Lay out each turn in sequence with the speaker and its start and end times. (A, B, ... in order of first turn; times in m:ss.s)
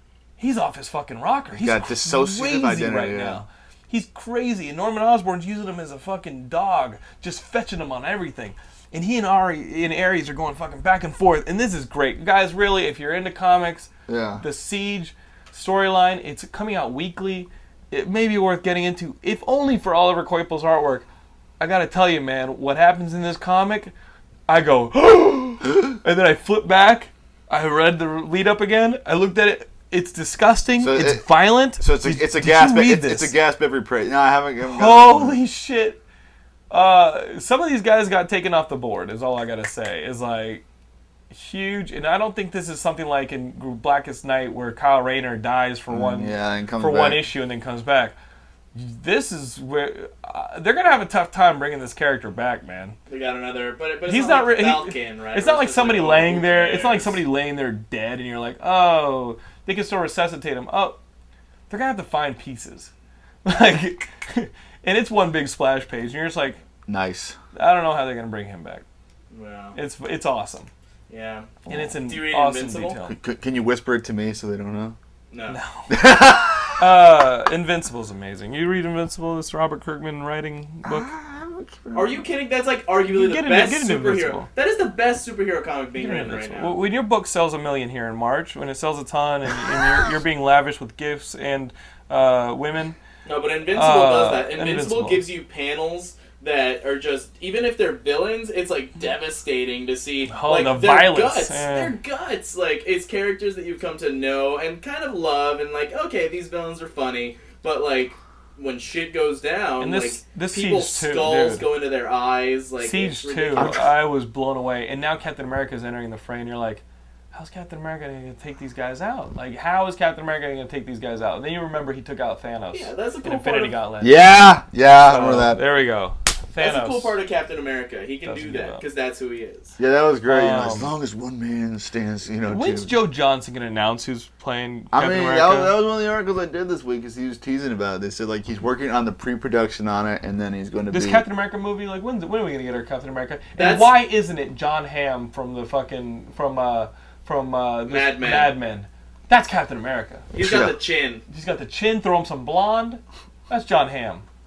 0:00.4-0:13.9 A
0:01.6-0:03.4 B
0:14.1-0:14.4 B
0:14.4-0:21.0 A
0:21.6-0:23.9 A
0:24.5-0:33.3 A
0:30.8-0:31.2 B
0:31.8-0:35.4 B
0:34.6-0:36.0 A
0:36.7-0:40.6 A
0:41.3-0:48.2 A
0:45.9-0:47.3 B
0:48.8-0:53.0 A
0:53.1-0:57.2 C
0:54.1-1:01.0 A
1:01.7-1:02.9 A
1:03.4-1:06.6 A
1:06.9-1:07.4 B
1:07.5-1:08.8 A
1:09.3-1:09.8 C
1:09.7-1:10.7 A
1:11.1-1:13.0 C
1:11.6-1:13.2 A
1:13.1-1:15.0 B
1:15.3-1:15.6 C
1:15.5-1:15.9 A
1:15.9-1:16.9 B
1:16.8-1:21.1 A
1:20.8-1:22.2 B
1:21.9-1:26.8 C
1:23.1-1:24.5 A
1:26.0-1:33.0 A
1:33.2-1:53.8 C
1:33.7-1:35.2 A
1:40.3-1:42.0 A
1:49.8-1:51.7 A
1:52.8-2:04.2 A
1:53.6-1:53.9 B
2:02.7-2:03.8 C
2:04.0-2:05.6 B
2:04.9-2:07.1 A
2:06.6-2:09.8 C
2:08.2-2:08.8 A
2:09.8-2:12.9 B
2:10.3-2:10.9 A
2:12.5-2:15.7 A
2:14.9-2:21.2 B
2:20.9-2:30.3 A
2:23.6-2:23.9 C
2:27.9-2:28.6 C
2:30.3-2:31.2 C
2:30.4-2:30.8 B
2:31.3-2:34.2 A